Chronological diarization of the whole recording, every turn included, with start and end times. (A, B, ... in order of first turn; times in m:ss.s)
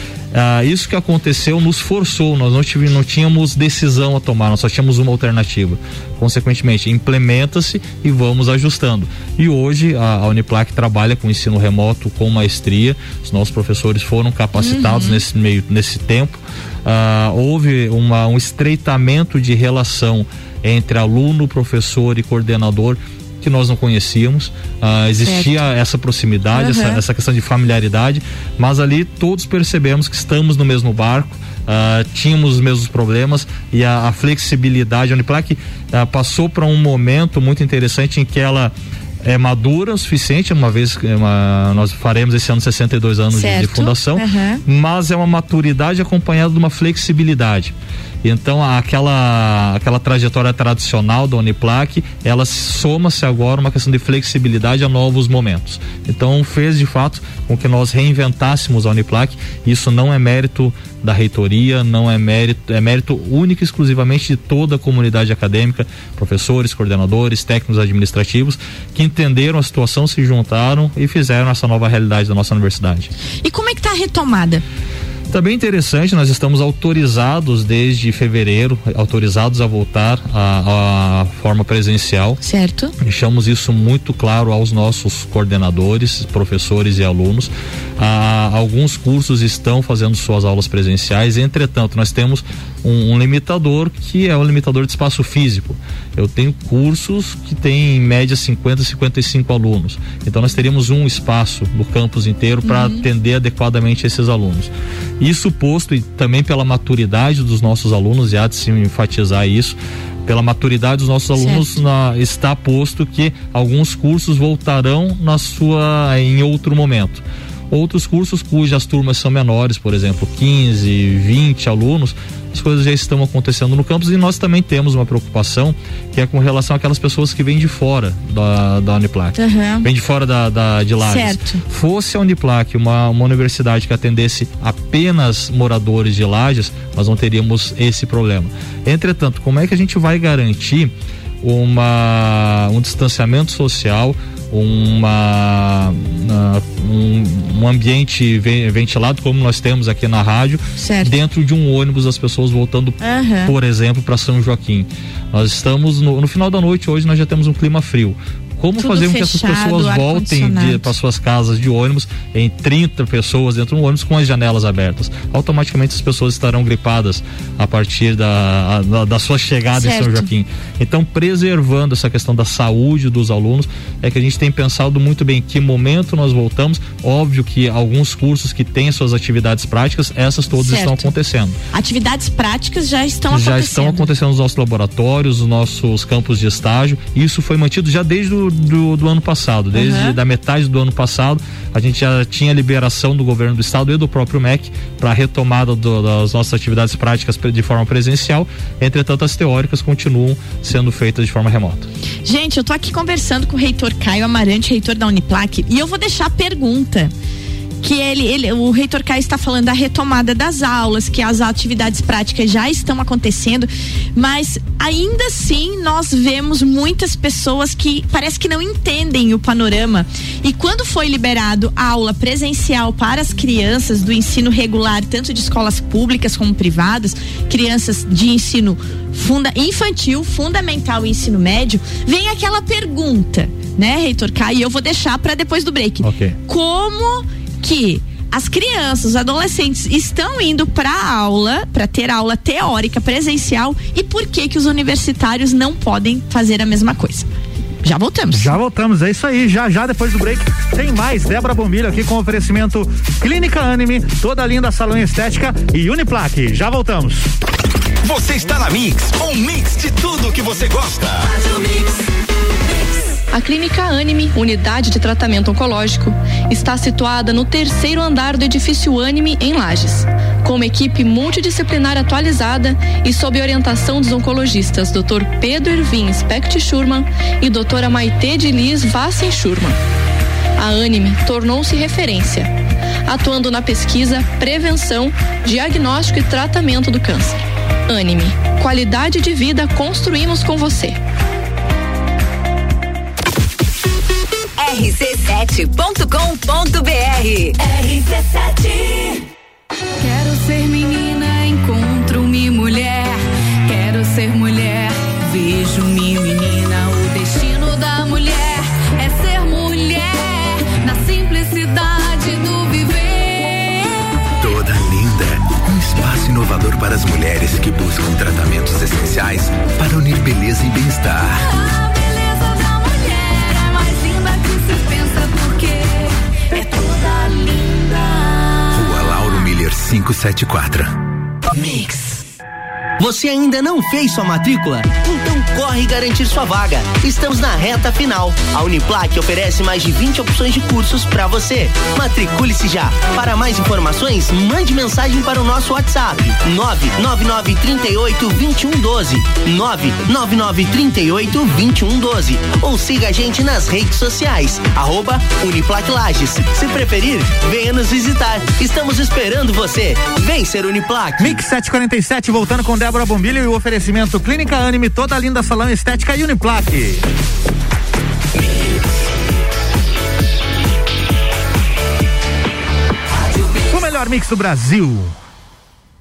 0:00.3-1:13.1 A
0:14.6-0:15.2 B
0:25.2-0:25.5 B
0:26.5-0:27.0 B
0:43.3-0:44.6 B
1:13.4-1:14.6 B
1:15.3-1:22.4 A
1:22.4-1:22.9 B
1:23.0-3:01.6 A
1:42.6-1:43.0 B
1:51.4-1:51.7 B
2:09.4-2:09.9 B
2:11.0-2:11.6 B
2:30.8-2:31.1 B
2:33.0-2:33.5 B
2:38.8-2:40.9 B
2:49.7-2:50.3 B
3:00.6-3:01.1 B
3:01.7-3:04.1 B
3:03.3-3:21.9 A
3:09.7-3:10.2 B
3:22.2-3:27.1 B
3:27.8-4:07.3 B
3:56.0-3:56.4 A
4:07.8-4:08.5 B
4:08.3-4:17.3 C
4:18.0-4:21.4 D
4:23.3-4:39.8 E
4:40.6-4:42.5 E
4:43.0-4:51.0 E
4:54.6-4:57.6 F
4:57.6-4:59.2 G
5:00.0-5:14.0 G
5:14.4-5:21.4 D
5:21.4-5:28.6 G
5:28.7-5:30.9 D
5:31.6-5:32.2 G
5:33.0-6:01.4 H
6:01.2-6:07.0 C
6:13.7-6:15.2 C